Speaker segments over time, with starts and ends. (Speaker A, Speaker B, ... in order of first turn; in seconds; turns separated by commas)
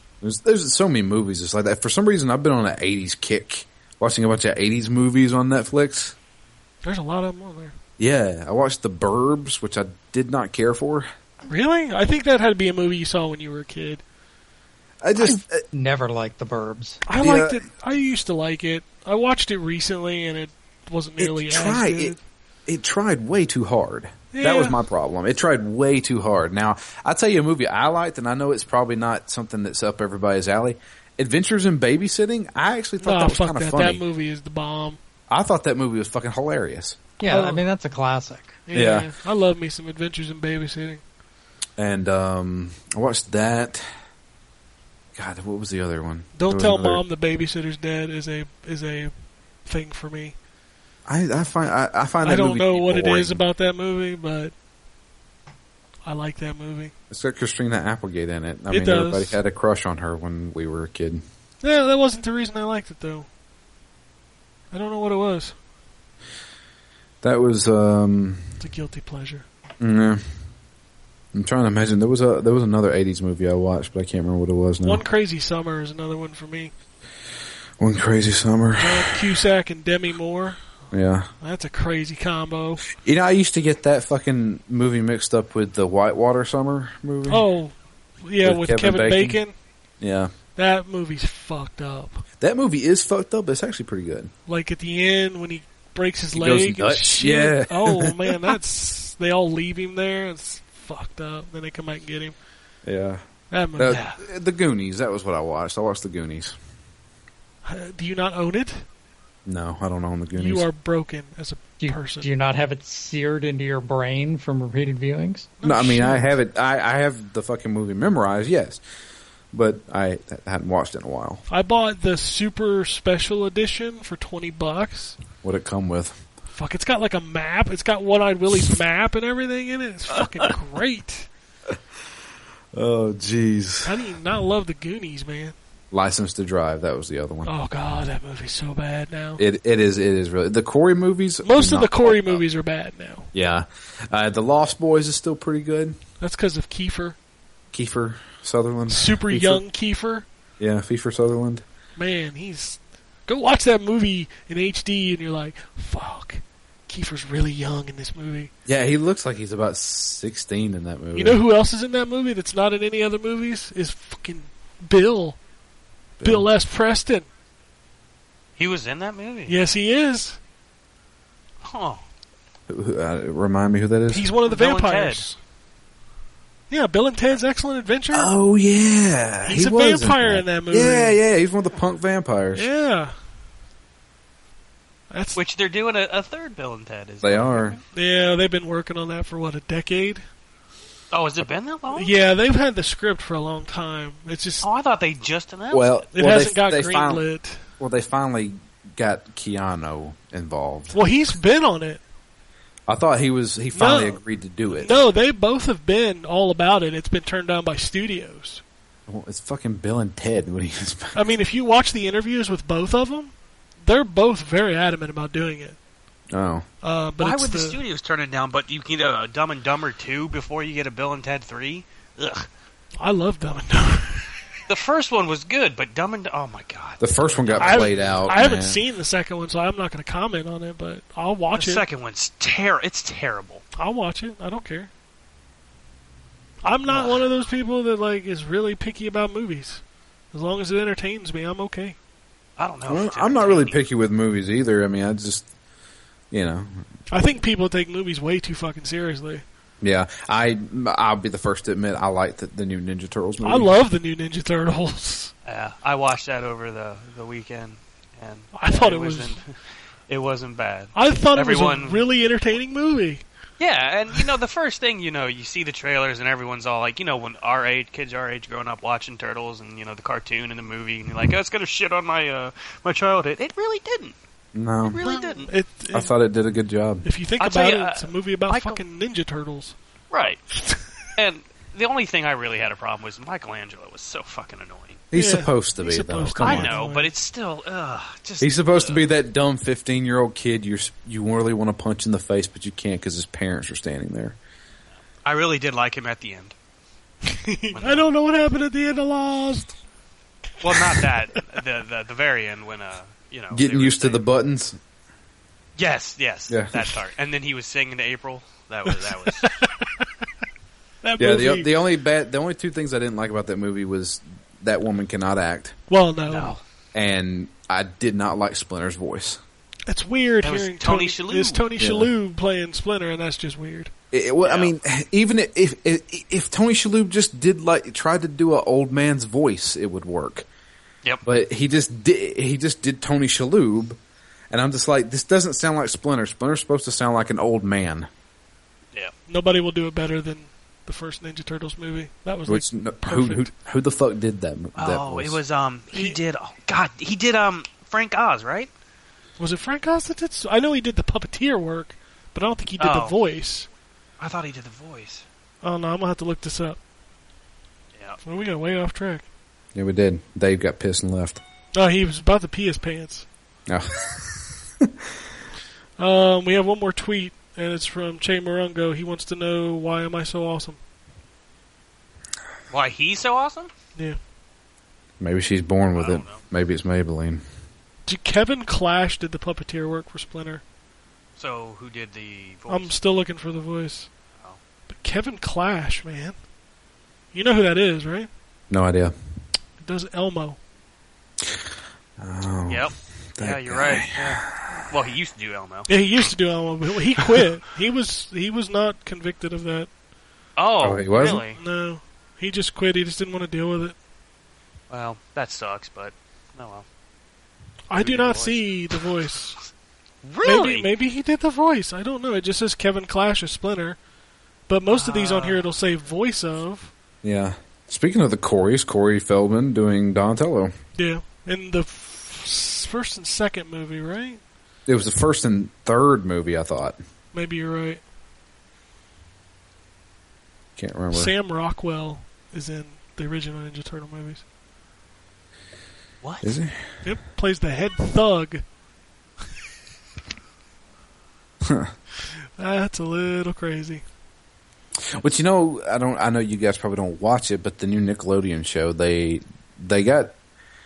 Speaker A: 0.2-6.2, Speaker B: 6.8-7.8, Speaker A: 8.0-11.1, Speaker B: 11.4-14.0, Speaker A: 15.0-15.6, Speaker C: 15.7-17.0, Speaker B: 17.1-22.2, Speaker A: 17.2-17.6, Speaker A: 21.2-22.1, Speaker A: 22.6-34.0, Speaker B: 24.3-24.8, Speaker B: 33.0-35.0, Speaker A: 35.3-37.0, Speaker C: 37.2-38.6, Speaker B: 37.2-37.6, Speaker B: 38.7-41.0, Speaker A: 38.7-39.1, Speaker A: 41.8-43.8, Speaker A: 45.1-47.0, Speaker B: 46.4-49.1, Speaker B: 49.6-50.4, Speaker A: 51.0-53.4, Speaker B: 52.2-54.5, Speaker B: 56.0-56.9, Speaker A: 57.1-61.2, Speaker B: 58.7-59.4, Speaker B: 61.6-63.3, Speaker B: 64.7-65.5, Speaker A: 67.2-68.4, Speaker B: 68.6-69.4, Speaker A: 69.8-70.2, Speaker A: 71.3-75.0, Speaker B: 74.8-76.7, Speaker A: 77.8-79.2, Speaker B: 78.8-80.6, Speaker A: 80.9-81.3, Speaker B: 81.4-82.9, Speaker A: 83.0-87.4, Speaker B: 87.3-89.5, Speaker A: 88.4-89.4, Speaker A: 90.0-90.3, Speaker B: 90.6-92.2, Speaker A: 92.4-94.3, Speaker B: 94.5-102.3, Speaker A: 96.3-98.5, Speaker A: 102.8-103.2, Speaker B: 103.5-104.2, Speaker A: 103.8-106.5, Speaker B: 107.6-108.8, Speaker A: 109.5-110.7, Speaker B: 110.3-112.3, Speaker C: 111.8-115.5, Speaker B: 115.6-116.3, Speaker A: 115.6-118.8, Speaker A: 119.5-121.4, Speaker B: 121.5-125.2, Speaker A: 125.4-126.2, Speaker B: 126.5-131.3, Speaker A: 132.7-134.0, Speaker B: 133.8-135.5, Speaker A: 135.9-137.5, Speaker B: 137.4-139.4, Speaker A: 139.4-142.4, Speaker B: 141.4-143.3, Speaker A: 143.3-146.0, Speaker B: 146.2-147.2, Speaker A: 147.7-149.6, Speaker B: 148.9-150.2, Speaker A: 150.6-151.6, Speaker B: 151.9-158.5, Speaker A: 158.7-161.4, Speaker B: 161.1-165.4, Speaker A: 166.2-166.5, Speaker B: 166.2-167.2, Speaker D: 168.6-169.6, Speaker B: 169.5-170.4, Speaker D: 171.6-172.0, Speaker A: 172.7-174.3, Speaker B: 174.1-175.4, Speaker D: 174.5-175.2, Speaker B: 176.7-178.3, Speaker A: 178.1-182.7, Speaker B: 179.5-181.2, Speaker B: 182.5-183.1, Speaker B: 185.1-185.4, Speaker D: 185.3-187.8, Speaker A: 187.2-187.8, Speaker B: 187.9-190.2, Speaker D: 191.1-192.1, Speaker B: 191.9-194.7, Speaker D: 194.6-196.0, Speaker A: 195.7-197.2, Speaker B: 196.1-197.6, Speaker A: 197.8-201.0, Speaker B: 200.9-202.0, Speaker A: 202.9-205.0, Speaker B: 203.7-208.6, Speaker A: 209.1-211.2, Speaker B: 211.1-215.8, Speaker A: 216.3-216.6, Speaker B: 216.8-217.8, Speaker D: 217.2-222.5, Speaker B: 223.0-224.2, Speaker D: 224.7-228.3, Speaker A: 227.0-228.8, Speaker B: 227.6-231.8, Speaker D: 231.5-233.6, Speaker B: 233.8-234.9, Speaker B: 236.6-239.8, Speaker D: 236.9-237.2, Speaker B: 240.3-241.9, Speaker D: 242.6-243.8, Speaker A: 242.9-245.4, Speaker A: 246.3-246.9, Speaker B: 247.1-249.4, Speaker A: 249.8-253.7, Speaker B: 253.4-255.3, Speaker D: 255.4-259.5, Speaker B: 258.5-259.4, Speaker D: 260.1-262.0, Speaker B: 260.9-263.2, Speaker D: 263.6-274.1, Speaker A: 274.5-275.0, Speaker D: 274.8-275.5, Speaker B: 275.0-276.1, Speaker A: 275.9-277.1, Speaker B: 277.0-279.8, Speaker D: 277.4-278.8, Speaker D: 280.1-280.4, Speaker B: 280.6-280.8, Speaker D: 281.2-285.0, Speaker A: 285.1-286.8, Speaker B: 285.1-287.1, Speaker D: 286.4-289.1, Speaker A: 288.4-294.4, Speaker D: 295.2-296.5, Speaker B: 297.3-299.7, Speaker D: 297.7-298.0, Speaker D: 300.6-304.2, Speaker B: 300.6-301.1, Speaker A: 303.5-304.8, Speaker D: 305.8-309.5, Speaker A: 306.5-306.8, Speaker B: 308.9-309.8, Speaker B: 311.0-311.7, Speaker A: 311.2-315.7, Speaker B: 315.9-316.6, Speaker D: 316.3-316.6, Speaker A: 316.9-319.4, Speaker B: 319.9-323.9, Speaker D: 320.4-321.6, Speaker A: 321.8-322.1, Speaker A: 324.1-330.5, Speaker D: 324.4-324.7, Speaker A: 331.2-334.0, Speaker A: 334.5-338.1, Speaker B: 339.3-343.5, Speaker A: 342.5-345.4, Speaker D: 344.8-348.7, Speaker B: 345.9-346.2, Speaker B: 349.4-353.7, Speaker D: 352.8-353.1, Speaker D: 354.2-355.2, Speaker B: 355.6-356.8, Speaker B: 358.2-359.2, Speaker A: 359.7-361.4, Speaker B: 361.7-363.2, Speaker A: 363.7-364.9, Speaker B: 366.0-370.8, Speaker D: 372.7-373.7, Speaker A: 375.2-377.4, Speaker D: 375.9-376.4, Speaker B: 378.1-380.6, Speaker D: 381.4-382.9, Speaker B: 382.7-384.1, Speaker B: 384.9-386.3, Speaker B: 387.3-388.3, Speaker A: 388.7-389.1, Speaker B: 389.8-390.6, Speaker A: 392.2-394.4, Speaker D: 392.7-395.9, Speaker B: 395.9-399.9, Speaker D: 400.6-401.6, Speaker A: 400.8-401.4, Speaker B: 401.5-403.9, Speaker D: 404.9-406.8, Speaker B: 407.9-409.6, Speaker D: 408.0-408.7, Speaker D: 410.2-410.9, Speaker B: 410.4-414.0, Speaker B: 414.7-416.9, Speaker D: 414.9-415.7, Speaker A: 417.2-420.7, Speaker B: 420.9-424.4, Speaker A: 424.9-427.0, Speaker B: 427.3-428.0, Speaker A: 430.8-431.3, Speaker B: 431.1-434.4, Speaker D: 436.2-436.5, Speaker A: 436.4-436.8, Speaker B: 437.0-438.6, Speaker A: 441.6-441.9, Speaker B: 442.6-444.0, Speaker A: 445.1-450.4